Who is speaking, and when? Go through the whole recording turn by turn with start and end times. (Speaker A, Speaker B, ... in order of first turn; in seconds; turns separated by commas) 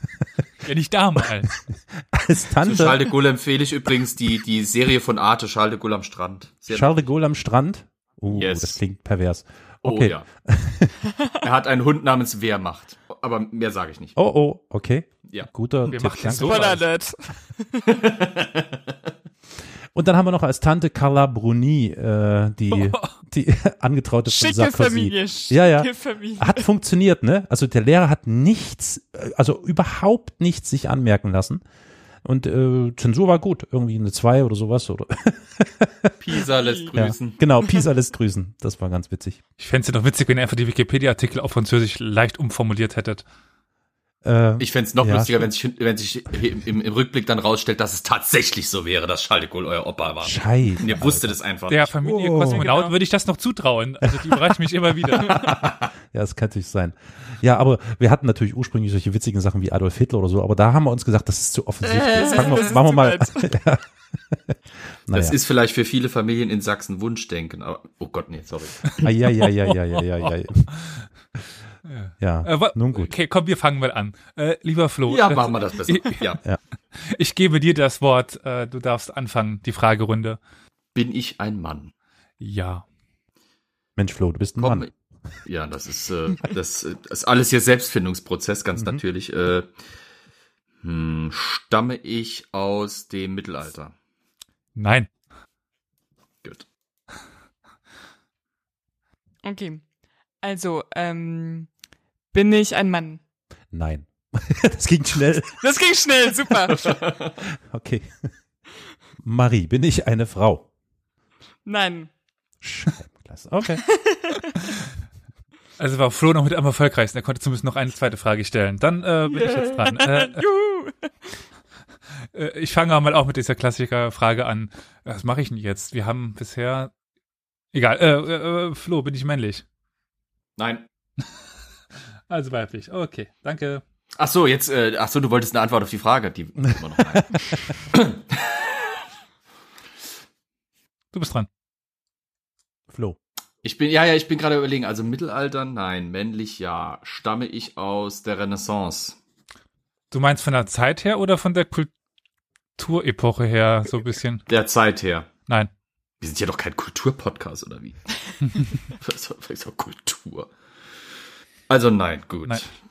Speaker A: 0.6-1.5, Speaker B: 2.1-3.1, Speaker C: 2.6-6.9, Speaker B: 6.7-11.0, Speaker C: 8.3-8.8, Speaker C: 9.8-10.3, Speaker C: 11.4-14.2, Speaker B: 14.2-16.9, Speaker A: 15.9-16.8, Speaker D: 16.4-18.0, Speaker C: 17.9-19.1, Speaker B: 19.9-31.6, Speaker A: 22.7-23.1, Speaker D: 24.3-26.7, Speaker B: 32.2-36.2, Speaker C: 36.2-37.4, Speaker D: 36.6-36.9, Speaker B: 37.0-39.4, Speaker A: 39.6-43.2, Speaker B: 44.2-45.5, Speaker C: 44.6-51.9, Speaker B: 50.2-51.4, Speaker A: 51.7-55.5, Speaker B: 52.0-52.6, Speaker D: 52.5-52.9, Speaker C: 55.1-55.9, Speaker B: 56.1-64.6, Speaker C: 61.8-62.7, Speaker D: 62.2-63.5, Speaker B: 65.1-65.4, Speaker C: 65.1-68.9, Speaker A: 68.9-71.0, Speaker B: 69.0-70.7, Speaker A: 71.8-76.4, Speaker B: 72.2-73.1, Speaker C: 75.1-76.4, Speaker A: 77.0-80.4, Speaker C: 81.0-81.9, Speaker A: 82.4-82.8, Speaker B: 84.0-84.9, Speaker C: 84.6-84.9, Speaker C: 85.5-89.7, Speaker B: 88.8-89.0, Speaker C: 90.8-93.9, Speaker A: 94.8-95.1, Speaker D: 99.4-99.8, Speaker D: 100.4-101.7, Speaker D: 102.3-103.2, Speaker B: 103.7-105.6, Speaker D: 105.6-107.0, Speaker C: 106.7-107.4, Speaker B: 106.8-108.3, Speaker B: 109.2-110.7, Speaker D: 111.7-112.1, Speaker B: 112.6-113.8, Speaker D: 113.9-114.6, Speaker A: 115.8-120.4, Speaker D: 119.4-121.3, Speaker A: 122.3-126.9, Speaker A: 127.7-129.6, Speaker C: 130.6-130.9, Speaker A: 132.3-133.8, Speaker C: 134.2-138.6, Speaker A: 141.1-141.5, Speaker B: 142.9-143.2, Speaker C: 143.6-149.2, Speaker A: 150.1-151.9, Speaker A: 152.8-154.5, Speaker C: 154.5-155.3, Speaker C: 156.2-158.0, Speaker C: 158.9-160.5, Speaker C: 161.7-162.7